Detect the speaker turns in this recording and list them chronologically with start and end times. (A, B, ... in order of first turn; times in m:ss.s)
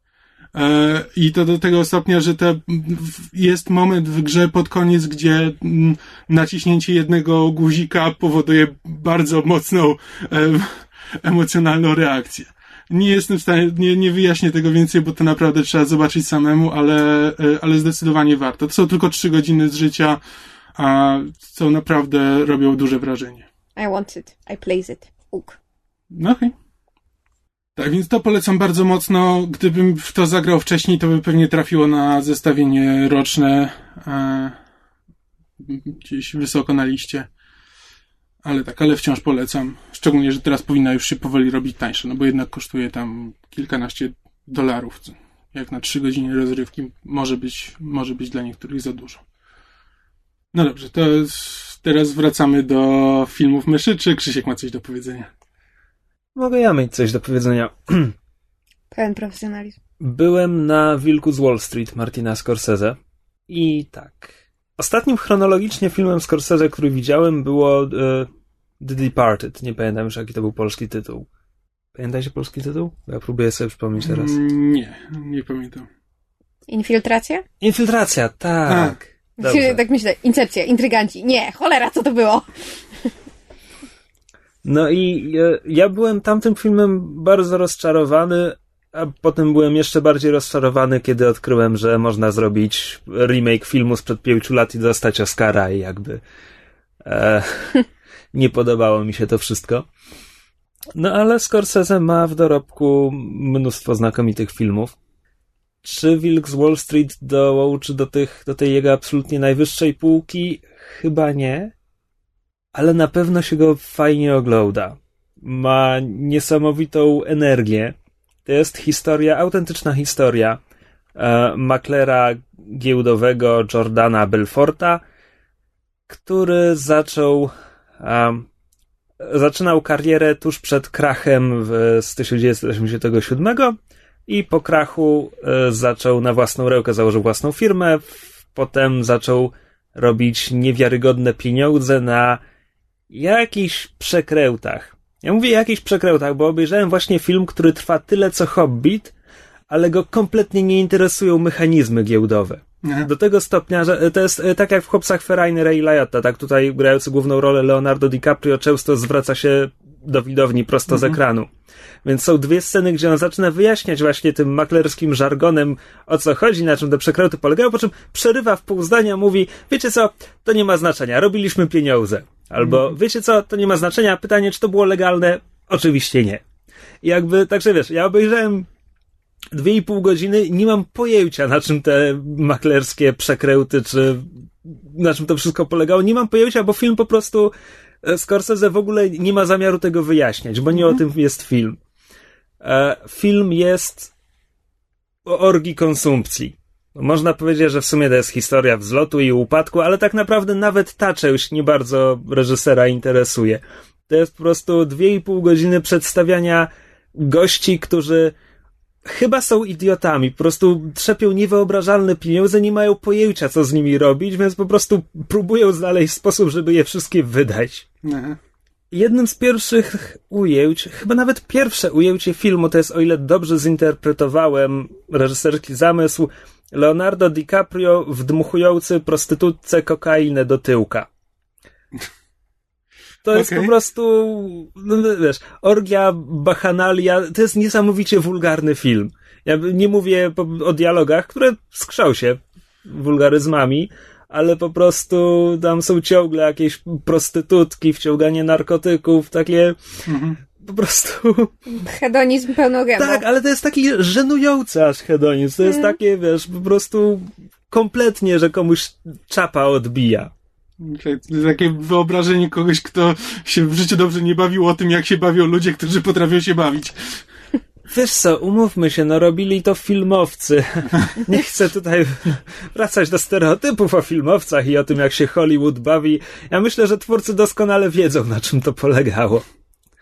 0:00.5-0:20.2 A
0:20.8-0:23.4 A
0:23.8-0:25.6 B
0:26.1-0:26.5 A
0:27.8-0:34.6 A
0:35.6-0:37.3 A
0:38.4-0:49.2 A
0:50.5-0:55.3 A
0:56.4-0:58.1 C
0:58.9-0:59.8 B
1:00.0-1:03.0 C
1:03.5-1:08.3 C
1:08.8-1:11.3 C
1:11.9-1:14.3 C
1:14.0-1:15.9 A
1:16.7-1:17.4 B
1:17.6-1:19.8 C
1:18.7-1:19.0 A
1:19.4-1:22.4 B
1:24.6-1:36.2 C
1:37.0-1:37.8 C
1:38.3-1:39.9 C
1:41.0-1:45.0 C
1:45.8-1:51.7 C
1:52.7-1:57.9 C
1:58.4-2:00.6 C
2:01.2-2:05.0 C
2:06.1-2:08.5 C
2:09.2-2:22.4 C
2:23.1-2:29.1 C
2:29.7-2:41.5 C
2:32.8-2:33.1 A
2:40.9-2:41.2 A
2:42.0-2:56.4 C
2:52.6-2:52.9 A
2:57.0-2:58.7 C
2:59.5-3:11.8 C
3:12.6-3:14.1 C
3:15.2-3:28.3 C
3:29.0-3:37.8 C
3:38.0-3:38.4 A
3:38.9-3:51.1 C
3:53.2-4:09.8 C
3:53.3-3:53.7 A
4:10.0-4:10.4 A
4:10.6-4:11.5 C
4:11.8-4:13.2 B
4:13.0-4:20.3 C
4:15.6-4:15.9 B
4:20.8-4:27.2 A
4:27.9-4:39.4 C